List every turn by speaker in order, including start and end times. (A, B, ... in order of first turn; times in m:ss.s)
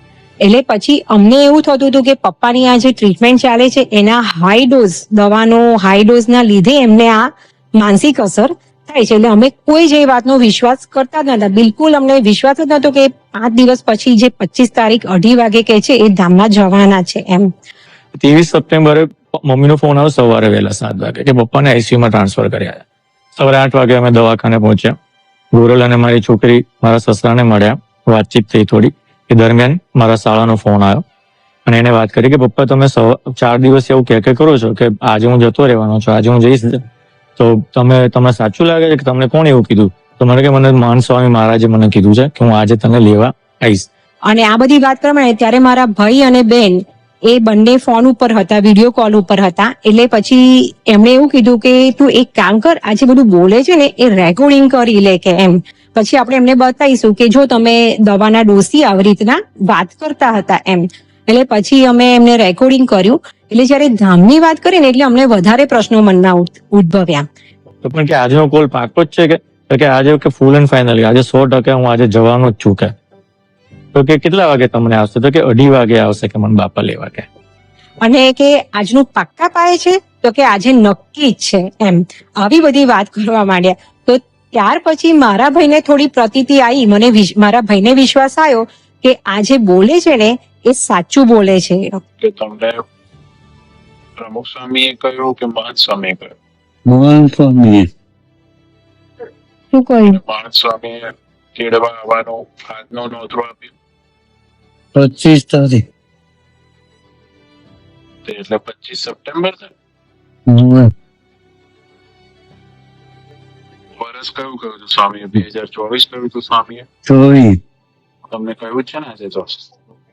0:00.4-0:17.5 A
0:18.2-0:22.8 B
0:23.4-0:25.0 B
0:25.5-0:31.0 B
0:31.6-0:36.8 B
0:37.4-0:43.9 B
0:44.3-1:07.2 A
1:07.8-1:12.9 B
1:13.9-1:17.2 B
1:18.0-1:32.0 A
1:32.2-1:32.8 C
1:34.2-1:36.3 C
1:36.8-1:37.9 D
1:39.7-1:40.2 A
1:40.1-1:43.7 C
1:44.9-1:45.8 D
1:48.2-1:49.7 C
1:50.5-1:50.9 D
1:54.0-1:56.9 C
1:57.0-1:57.6 D
1:58.3-1:59.6 C